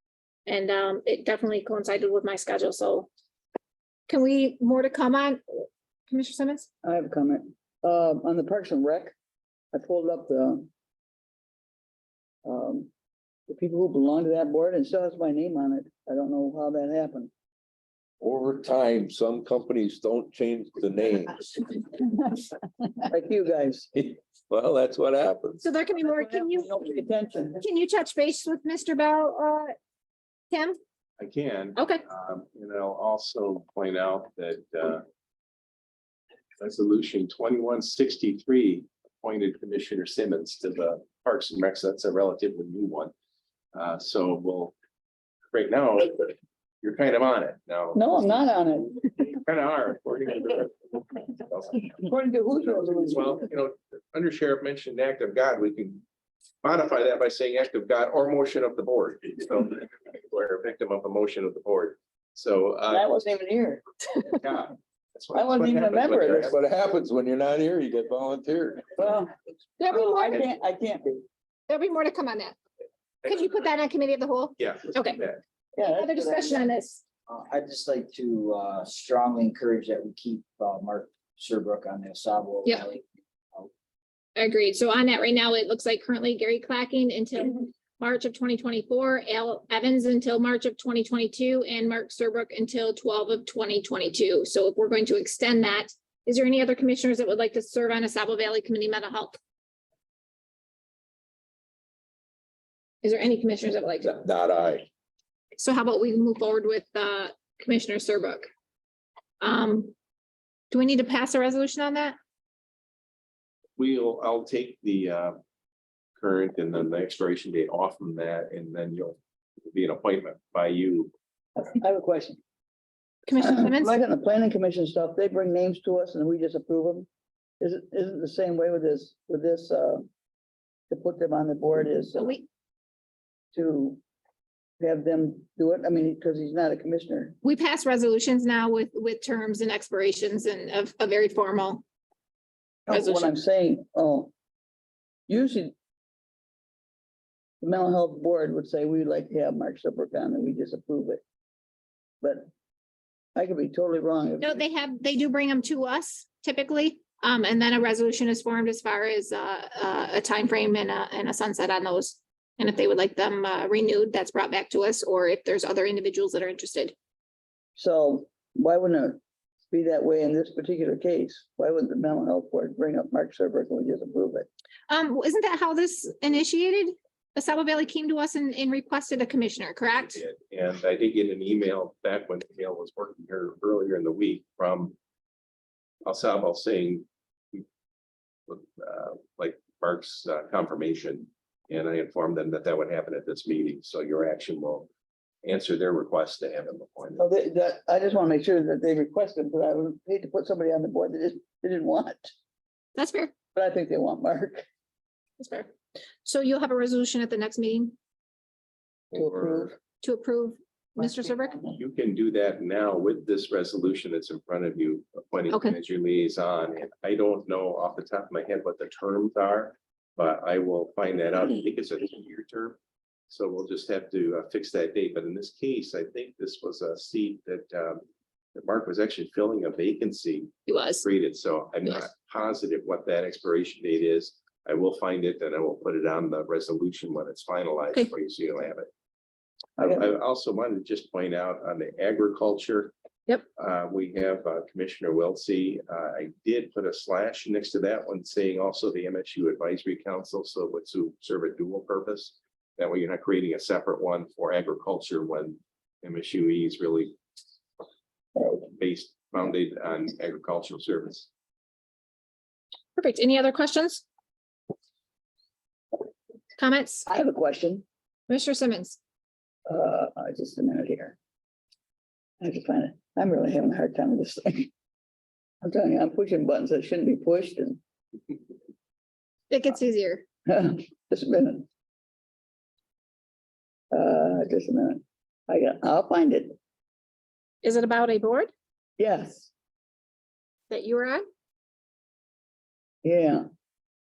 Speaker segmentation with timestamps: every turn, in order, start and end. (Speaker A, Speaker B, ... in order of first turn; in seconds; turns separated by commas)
Speaker A: 0.5-3.1, Speaker A: 4.1-6.7, Speaker B: 6.8-9.1, Speaker B: 9.7-10.7, Speaker B: 12.4-12.9, Speaker B: 13.5-17.3, Speaker C: 18.2-21.5, Speaker B: 21.9-22.3, Speaker B: 23.1-23.9, Speaker C: 23.9-25.6, Speaker A: 25.6-26.9, Speaker B: 26.0-27.6, Speaker A: 27.6-29.7, Speaker A: 30.5-30.8, Speaker D: 31.2-35.0, Speaker A: 31.8-32.0, Speaker D: 36.6-43.1, Speaker D: 43.7-44.7, Speaker D: 45.5-48.4, Speaker B: 47.9-49.0, Speaker D: 49.0-52.0, Speaker B: 52.0-53.4, Speaker D: 52.6-56.0, Speaker D: 56.6-63.1, Speaker B: 62.9-63.8, Speaker D: 64.3-66.6, Speaker B: 65.3-66.5, Speaker C: 66.3-69.1, Speaker B: 69.0-69.3, Speaker A: 69.8-70.5, Speaker B: 69.9-71.2, Speaker A: 71.7-72.6, Speaker A: 73.2-75.2, Speaker D: 74.6-75.4, Speaker B: 75.8-76.7, Speaker A: 75.8-77.0, Speaker E: 77.3-83.7, Speaker A: 84.4-99.4, Speaker A: 103.0-104.2, Speaker C: 104.1-104.9, Speaker A: 105.6-108.5, Speaker A: 109.4-109.9, Speaker A: 110.7-112.2, Speaker D: 113.8-115.4, Speaker D: 116.2-121.1, Speaker B: 121.6-122.4, Speaker A: 123.3-124.0, Speaker B: 123.4-127.1, Speaker B: 127.6-130.1, Speaker B: 130.9-132.4, Speaker A: 132.2-132.4, Speaker B: 133.5-134.0, Speaker B: 134.8-137.3, Speaker A: 137.4-141.8, Speaker B: 142.9-144.3, Speaker A: 142.9-143.3, Speaker B: 145.3-145.7, Speaker B: 147.6-151.2, Speaker B: 152.2-152.5, Speaker B: 153.3-154.6, Speaker A: 154.4-166.9, Speaker B: 167.8-169.2, Speaker B: 169.7-174.5, Speaker A: 174.9-180.2, Speaker D: 180.0-184.9, Speaker D: 186.0-187.6, Speaker D: 188.5-194.9, Speaker D: 195.4-197.2, Speaker B: 197.2-202.3, Speaker A: 202.9-203.3, Speaker B: 203.5-204.6, Speaker A: 205.4-205.7, Speaker A: 206.2-207.9, Speaker D: 209.1-209.7, Speaker B: 209.1-209.8, Speaker A: 210.0-211.6, Speaker B: 211.0-211.8, Speaker D: 211.8-222.8, Speaker A: 215.5-215.8, Speaker D: 223.3-228.0, Speaker D: 228.5-238.9, Speaker A: 230.7-231.0, Speaker B: 239.8-240.0, Speaker D: 239.8-242.9, Speaker D: 243.6-257.2, Speaker D: 258.4-261.3, Speaker A: 263.0-264.0, Speaker A: 266.6-267.1, Speaker B: 267.1-267.9, Speaker A: 268.3-269.0, Speaker B: 269.7-271.2, Speaker B: 272.4-274.7, Speaker B: 275.6-277.8, Speaker A: 279.5-280.2, Speaker B: 280.5-281.7, Speaker B: 283.9-286.6, Speaker A: 287.6-288.5, Speaker B: 289.0-289.5, Speaker A: 290.7-291.2, Speaker B: 293.0-293.4